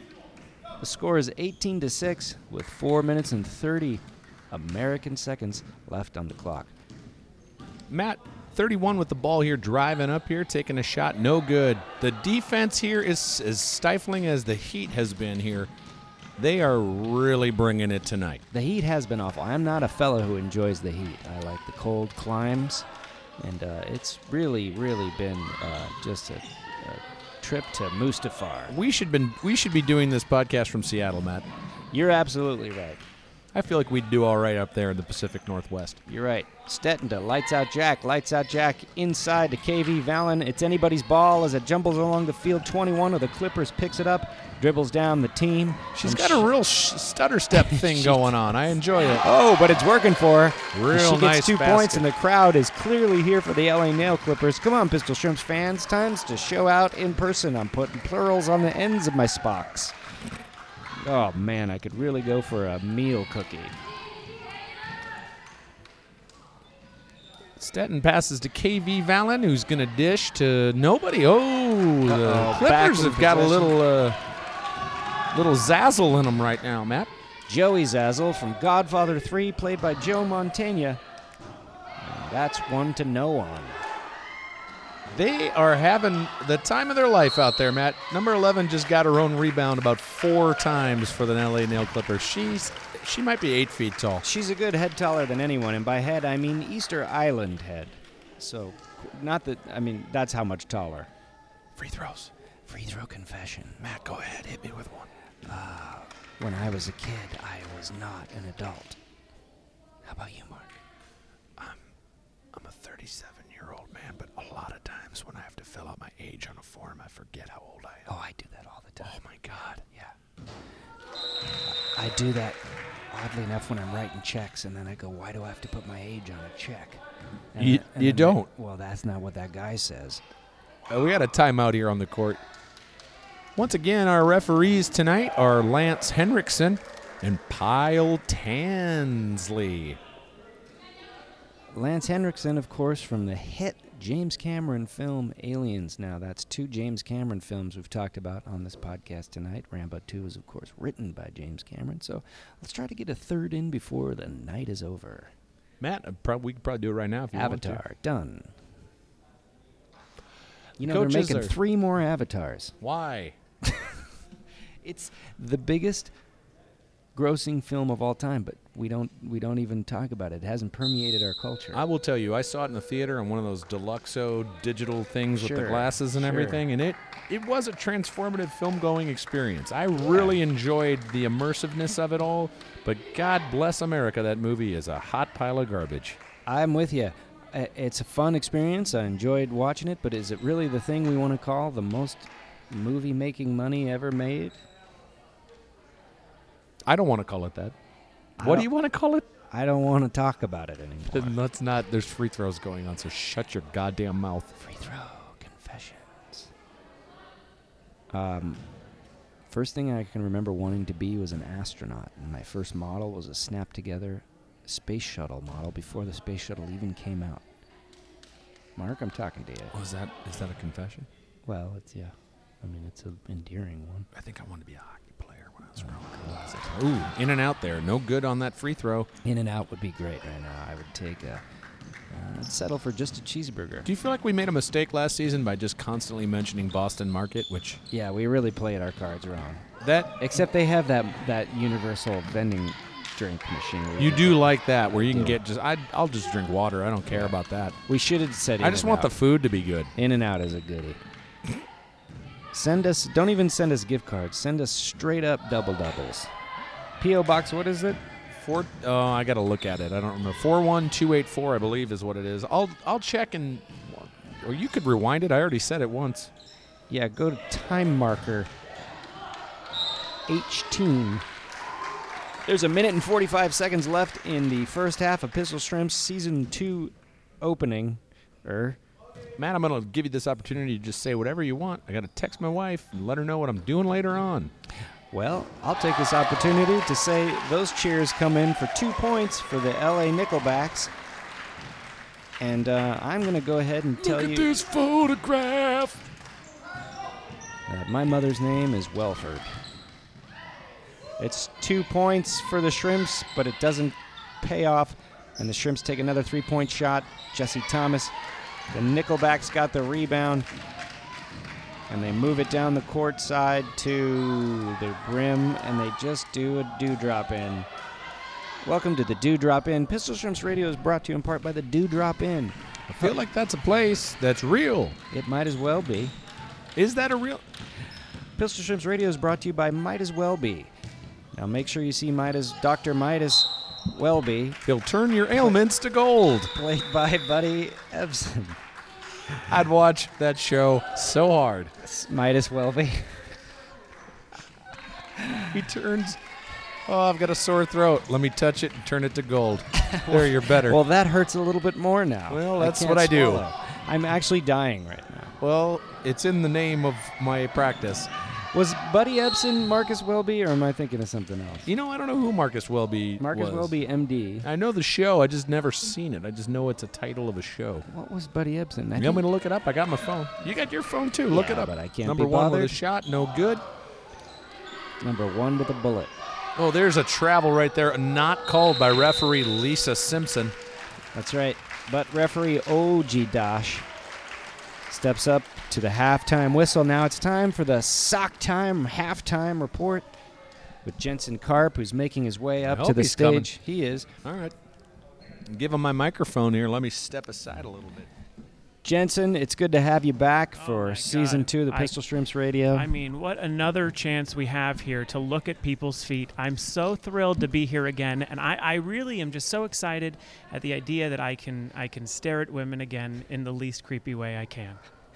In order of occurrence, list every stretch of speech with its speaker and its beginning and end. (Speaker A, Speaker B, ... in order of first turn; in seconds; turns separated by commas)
Speaker A: 0.8-6.7, Speaker B: 7.9-15.7, Speaker B: 16.4-18.4, Speaker A: 18.5-22.8, Speaker A: 23.4-28.7, Speaker B: 28.7-31.5, Speaker A: 31.9-33.0, Speaker B: 33.5-36.0, Speaker A: 36.1-46.5, Speaker B: 45.9-49.3, Speaker A: 47.5-48.3, Speaker A: 49.2-59.9, Speaker B: 50.7-52.1, Speaker A: 61.0-63.8, Speaker B: 67.6-74.2, Speaker A: 72.0-73.8, Speaker B: 75.3-77.1, Speaker A: 77.5-81.0, Speaker A: 82.0-83.8, Speaker B: 85.1-94.2, Speaker A: 94.2-101.1, Speaker B: 101.8-102.3, Speaker A: 102.7-103.8, Speaker B: 103.8-105.1, Speaker A: 105.5-109.0, Speaker A: 110.0-110.8, Speaker B: 112.5-118.1, Speaker A: 118.1-119.2, Speaker B: 119.0-119.8, Speaker A: 121.7-127.0, Speaker A: 127.5-130.2, Speaker B: 127.6-128.5, Speaker B: 130.9-132.4, Speaker B: 133.6-140.0, Speaker A: 141.7-155.3, Speaker B: 155.8-157.8, Speaker A: 157.3-158.5, Speaker A: 160.8-162.8, Speaker B: 160.8-161.6, Speaker B: 162.8-163.3, Speaker A: 164.8-166.1, Speaker A: 167.1-171.8, Speaker B: 171.7-186.2, Speaker A: 175.3-176.6, Speaker A: 186.5-194.6, Speaker B: 196.8-197.8, Speaker A: 198.4-198.7, Speaker B: 198.4-199.2, Speaker A: 199.5-201.4, Speaker B: 201.1-204.5, Speaker A: 204.6-206.5, Speaker A: 208.1-208.6, Speaker A: 209.5-217.4, Speaker A: 218.8-219.7, Speaker B: 219.7-221.1, Speaker A: 221.4-224.1, Speaker B: 224.1-229.1, Speaker A: 225.8-226.7, Speaker A: 229.2-231.4, Speaker A: 232.1-233.9, Speaker B: 233.8-237.8, Speaker A: 237.9-245.4, Speaker B: 239.8-240.1, Speaker B: 244.0-247.8, Speaker A: 247.1-247.3, Speaker A: 247.9-249.1, Speaker B: 248.6-249.9, Speaker A: 249.9-251.0, Speaker A: 252.5-256.3, Speaker A: 257.0-258.0, Speaker B: 258.3-266.3, Speaker A: 266.9-268.5, Speaker A: 270.3-271.2, Speaker A: 272.4-278.8, Speaker B: 279.4-284.5, Speaker A: 285.1-290.9, Speaker A: 292.4-294.5, Speaker B: 294.0-296.1, Speaker A: 297.7-299.5, Speaker A: 301.2-308.1, Speaker A: 308.7-310.5, Speaker A: 311.9-317.7, Speaker A: 318.6-323.2, Speaker B: 322.9-325.0, Speaker A: 325.1-326.1, Speaker B: 326.8-327.4, Speaker A: 328.4-330.7, Speaker A: 331.3-334.6, Speaker B: 334.6-336.5, Speaker A: 336.5-338.6, Speaker B: 339.5-341.7, Speaker A: 341.8-343.1, Speaker A: 345.2-345.5, Speaker B: 345.5-346.2, Speaker B: 346.9-350.8, Speaker A: 349.8-355.3, Speaker B: 352.3-353.4, Speaker B: 355.4-358.1, Speaker A: 358.5-361.7, Speaker B: 361.6-363.7, Speaker A: 363.2-364.5, Speaker B: 364.4-367.9, Speaker A: 367.9-369.2, Speaker B: 368.9-373.6, Speaker A: 371.3-372.8, Speaker A: 375.0-376.1, Speaker B: 376.6-380.5, Speaker A: 381.1-383.9, Speaker A: 384.9-390.1, Speaker A: 390.8-394.1, Speaker B: 392.6-393.5, Speaker B: 394.2-394.6, Speaker B: 395.5-398.1, Speaker A: 398.8-402.9, Speaker C: 400.6-401.9, Speaker C: 402.7-414.8